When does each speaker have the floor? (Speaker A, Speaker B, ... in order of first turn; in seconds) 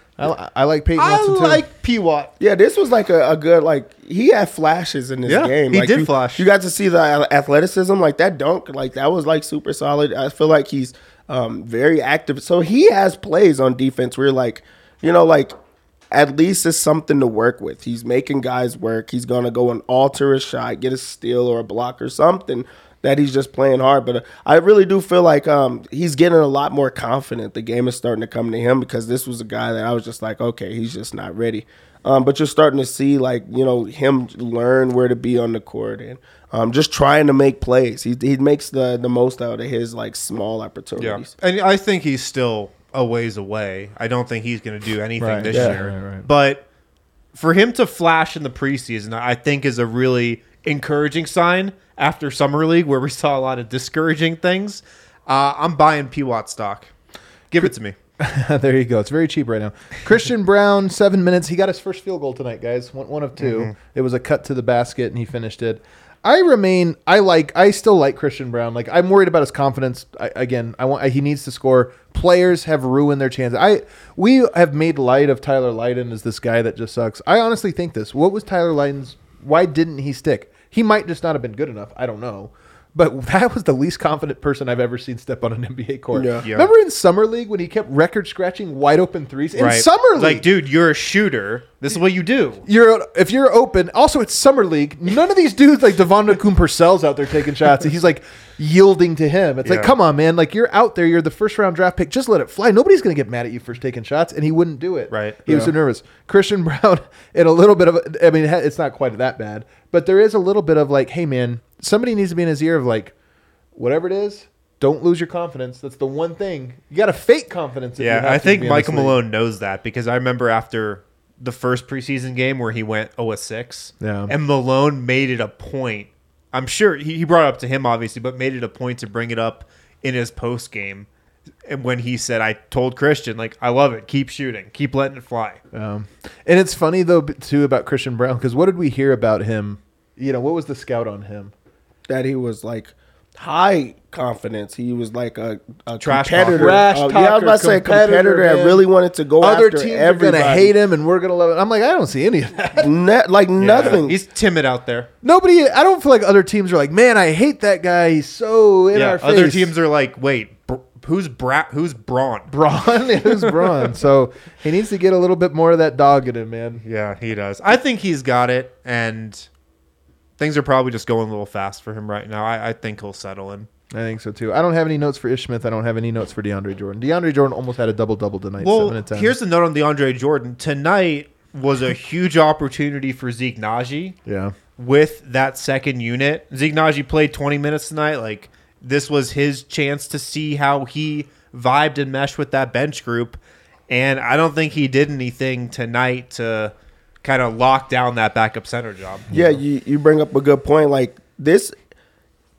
Speaker A: 0.2-1.7, 45.2-46.3, 57.6-90.5, 92.6-113.1, 113.7-119.2, 124.0-124.3, 135.7-141.5, 146.4-148.8, 149.4-152.9, 155.2-159.7, 162.5-166.8, 173.9-179.4, 184.2-184.6
Speaker B: 0.9-2.3, 5.2-6.4, 41.0-46.6, 47.3-56.9, 57.5-57.9, 63.4-63.7, 86.4-86.7, 89.6-92.6, 99.6-99.9, 105.1-105.4, 118.0-131.1, 131.7-135.6, 146.0-146.8, 153.6-155.1, 158.9-162.5, 166.8-169.5, 170.4-173.7, 178.6-184.2, 184.8-199.3
Speaker C: 2.4-15.5, 16.1-41.3, 45.5-45.7, 86.1-86.4, 105.5-105.7, 142.1-150.7, 152.8-154.2, 199.3-201.7